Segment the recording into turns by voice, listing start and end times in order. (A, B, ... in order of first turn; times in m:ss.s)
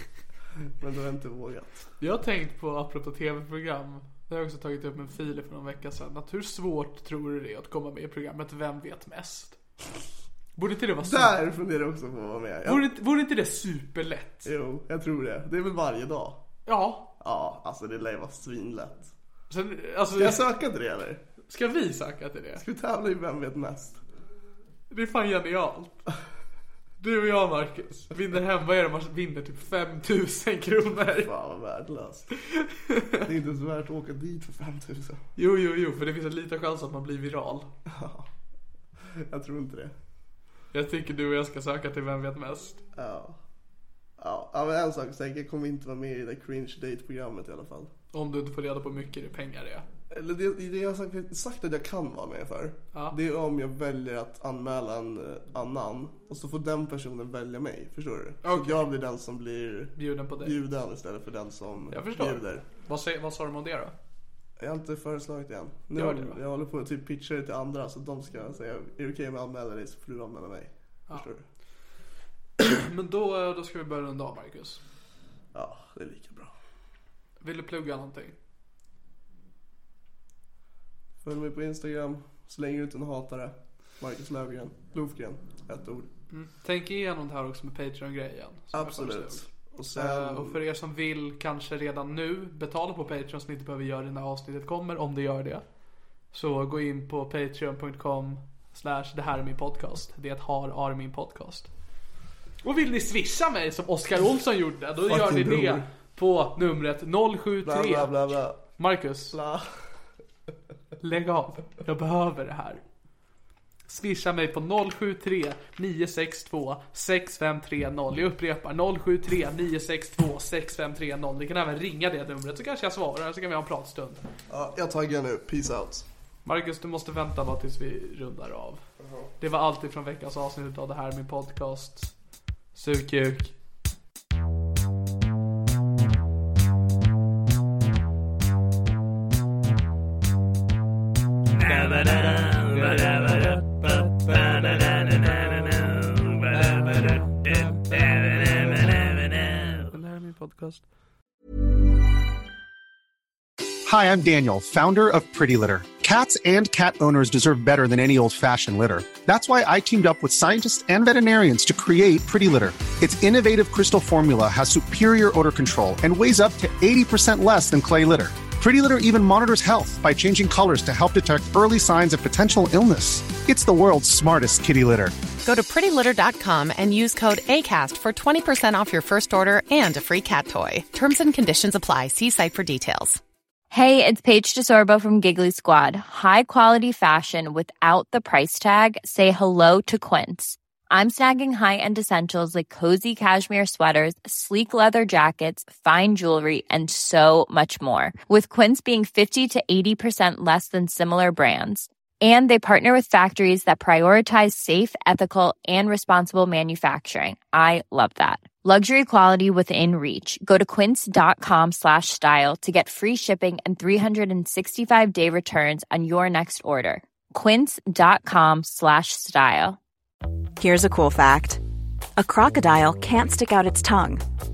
0:00.7-0:01.9 A
0:02.0-0:09.6 B
0:10.6-0:11.3 B
0:11.0-0:12.9 A
0:12.6-0:14.5 B
0:14.4-0:16.4 A
0:16.7-0:17.1 B
0:17.2-0:19.1 A
0:19.5-0:20.4 B
0:20.2-0:21.2 A
0:21.5-0:22.6 B
0:22.6-0:24.0 A
0:24.9-0:26.0 B
0:27.0-0:31.3 B
0:31.2-0:32.3 A
0:32.4-0:33.2 B
0:33.2-0:35.2 A
0:35.4-0:37.7 B
0:37.9-0:38.3 A
0:39.0-0:40.0 A
0:40.7-0:42.8 B
0:43.0-0:43.4 A
0:44.2-0:47.9 A
0:48.1-0:49.9 B
0:50.1-1:02.6 A
0:58.4-0:58.9 B
1:00.0-1:00.6 B
1:01.9-1:03.9 B
1:04.6-1:11.4 A
1:06.0-1:06.4 B
1:12.6-1:14.8 B
1:15.5-1:16.5 A
1:17.4-1:18.4 B
1:21.2-1:26.1 A
1:26.3-1:35.6 B
1:28.7-1:30.6 A
1:36.3-1:41.7 B
1:42.6-1:48.1 B
1:45.0-1:45.9 A
1:47.6-1:48.6 A
1:48.8-1:49.4 B
1:49.3-1:49.8 A
1:51.0-1:52.8 B
1:53.9-2:04.2 B
2:04.5-2:06.1 A
2:06.4-2:08.8 B
2:09.0-2:09.3 A
2:09.4-2:12.1 B
2:12.7-2:13.6 B
2:21.5-2:30.8 B
2:33.8-2:55.2 C
2:55.4-3:03.2 D
3:03.7-3:39.8 E
3:40.6-3:41.6 F
3:42.2-3:44.2 F